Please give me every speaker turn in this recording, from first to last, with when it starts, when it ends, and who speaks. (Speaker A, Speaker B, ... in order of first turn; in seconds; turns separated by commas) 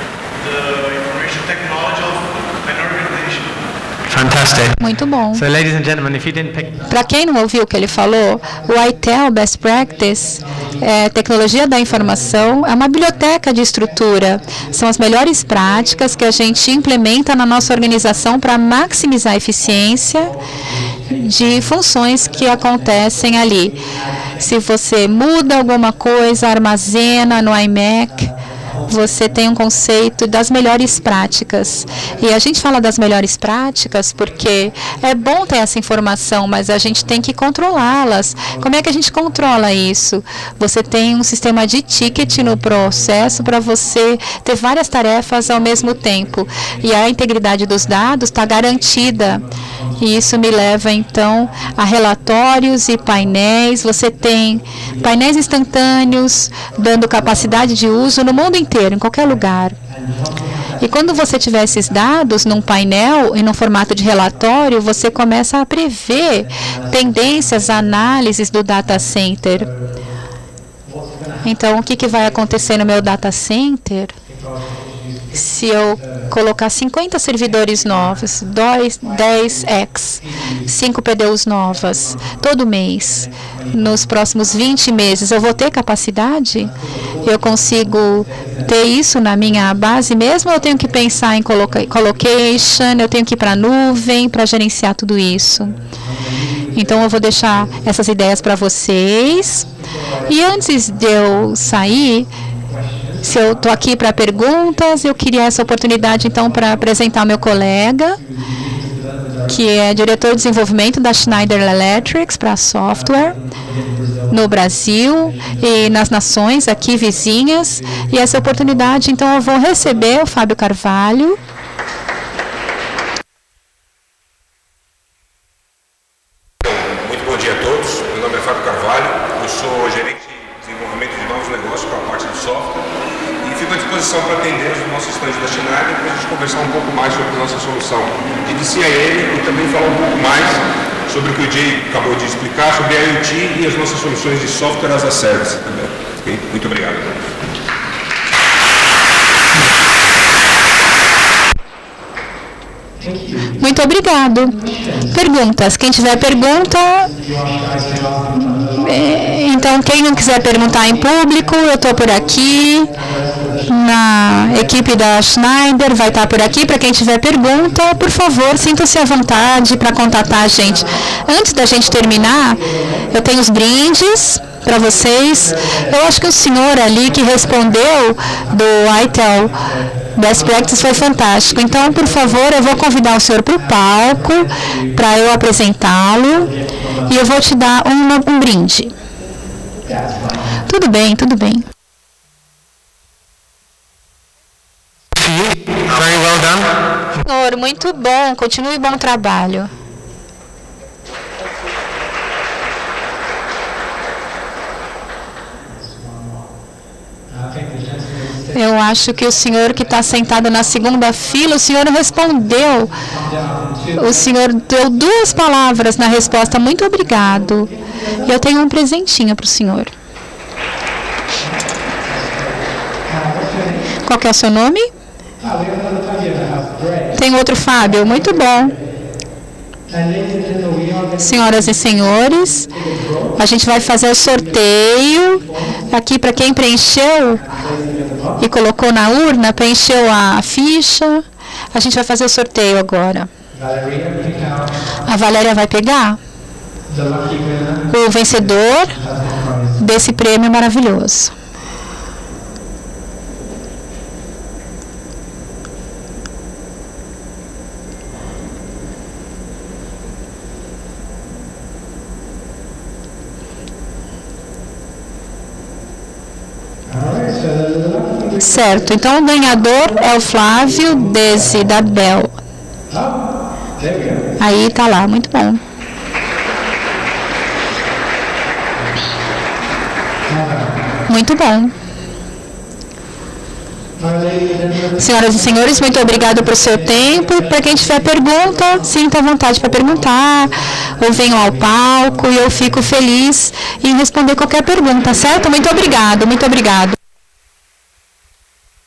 Speaker A: 0.3-3.5, Speaker A: 4.1-4.8, Speaker B: 4.8-5.4, Speaker A: 5.3-6.8, Speaker B: 6.9-20.4, Speaker B: 21.1-23.8, Speaker B: 24.4-28.3, Speaker B: 28.9-49.4, Speaker B: 50.0-59.8, Speaker B: 60.8-69.7, Speaker B: 71.4-74.2, Speaker B: 75.3-95.8, Speaker B: 96.7-99.7, Speaker B: 100.2-102.3, Speaker B: 103.2-108.2, Speaker B: 109.5-113.4, Speaker B: 114.3-121.4, Speaker C: 126.6-132.9, Speaker C: 133.4-147.1, Speaker B: 153.6-157.1, Speaker A: 157.5-158.2, Speaker B: 158.4-162.9, Speaker B: 163.7-179.6, Speaker B: 180.1-186.5, Speaker B: 187.1-188.9, Speaker A: 189.9-190.3, Speaker B: 190.7-191.7, Speaker A: 195.2-196.8, Speaker B: 197.2-199.7, Speaker A: 207.4-208.4, Speaker B: 208.5-213.0, Speaker A: 213.2-213.8, Speaker B: 213.9-219.9, Speaker A: 221.4-223.9, Speaker B: 224.0-224.9, Speaker A: 225.4-227.1, Speaker B: 227.1-228.8, Speaker A: 229.9-231.2, Speaker B: 231.2-232.7, Speaker A: 232.7-233.3, Speaker B: 233.4-237.5, Speaker A: 237.5-238.3, Speaker B: 238.4-243.3, Speaker A: 243.5-244.7, Speaker B: 245.1-246.2, Speaker A: 246.9-247.8, Speaker B: 247.9-249.0, Speaker A: 249.0-249.7, Speaker B: 249.8-251.3, Speaker A: 266.9-268.4, Speaker B: 268.4-272.3, Speaker A: 272.9-274.3, Speaker B: 274.4-275.6, Speaker A: 280.3-280.9, Speaker B: 281.1-281.7, Speaker A: 284.0-284.9, Speaker B: 284.9-297.0